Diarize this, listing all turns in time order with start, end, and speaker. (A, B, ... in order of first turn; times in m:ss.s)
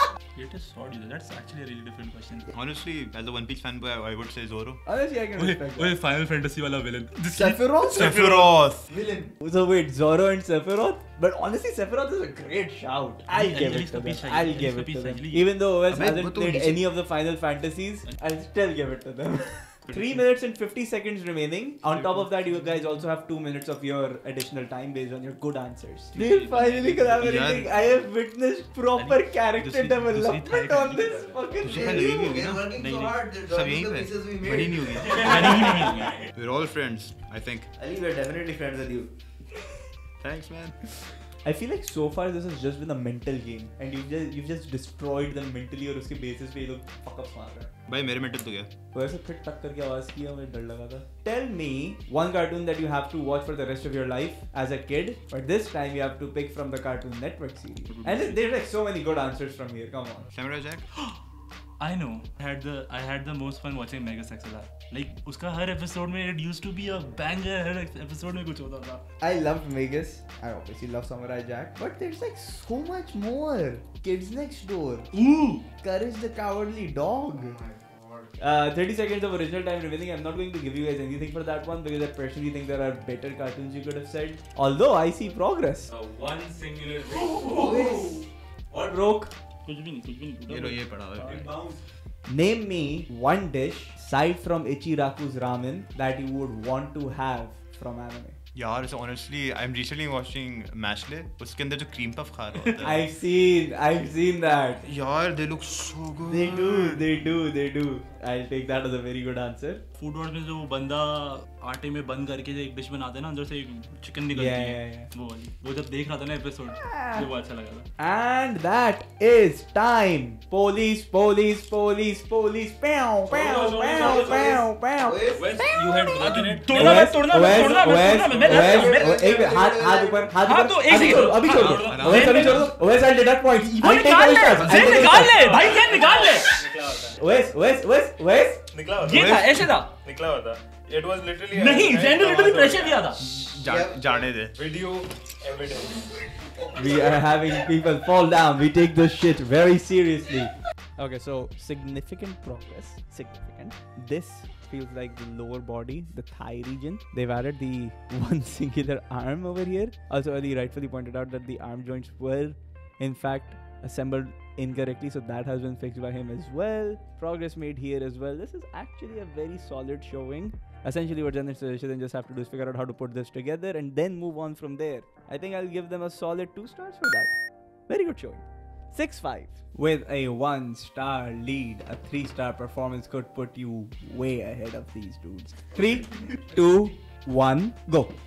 0:00.3-0:02.5 A
0:02.5-0:04.8 B
0:04.8-0:05.9 C
0:05.4-0:07.5 A
0:07.3-0:08.0 C
0:07.4-0:08.9 B
0:08.0-0:08.4 D
0:08.9-0:09.3 E
0:09.4-0:32.2 C
0:13.3-0:15.5 A
0:15.9-0:16.8 B
0:26.1-0:27.6 A
0:27.2-0:27.7 B
0:29.0-0:31.5 A
0:31.6-0:32.7 B
0:31.6-0:36.0 E
0:32.8-0:33.2 A
0:33.5-0:37.7 B
0:35.0-0:36.3 A
0:37.8-0:39.1 E
0:40.2-0:40.8 B
0:41.4-0:47.7 C
0:47.9-0:48.7 B
0:48.9-1:00.3 C
0:57.9-0:58.3 B
1:00.3-1:00.8 B
1:01.8-1:09.0 A
1:09.2-1:15.1 C
1:15.1-1:15.6 A
1:15.8-1:17.6 C
1:18.4-1:25.9 C
1:25.9-1:27.7 D
1:27.1-1:29.3 C
1:29.6-1:30.9 A
1:30.5-1:31.4 B
1:31.3-1:38.4 C
1:38.5-1:43.1 B
1:42.8-1:44.8 C
1:44.8-1:47.1 B
1:46.3-1:49.8 C
1:50.0-1:57.9 A
1:54.3-1:55.1 C
1:56.7-1:57.3 C
1:58.0-2:15.7 C
2:03.3-2:04.6 D
2:03.5-2:04.6 A
2:05.1-2:05.6 E
2:05.3-2:08.9 D
2:06.2-2:09.2 A
2:08.4-2:10.4 E
2:09.2-2:09.6 B
2:10.4-2:12.8 A
2:11.3-2:12.6 D
2:11.8-2:12.7 B
2:13.6-2:16.5 A
2:14.6-2:15.0 B
2:14.6-2:17.3 D
2:17.2-2:18.6 C
2:18.7-2:23.2 D
2:19.0-2:19.9 A
2:19.0-2:19.7 B
2:21.5-2:23.3 A
2:23.4-2:23.9 C
2:23.6-2:24.3 E
2:23.6-2:24.5 B
2:24.5-2:26.1 D
2:26.7-2:57.3 C
2:57.9-3:08.2 C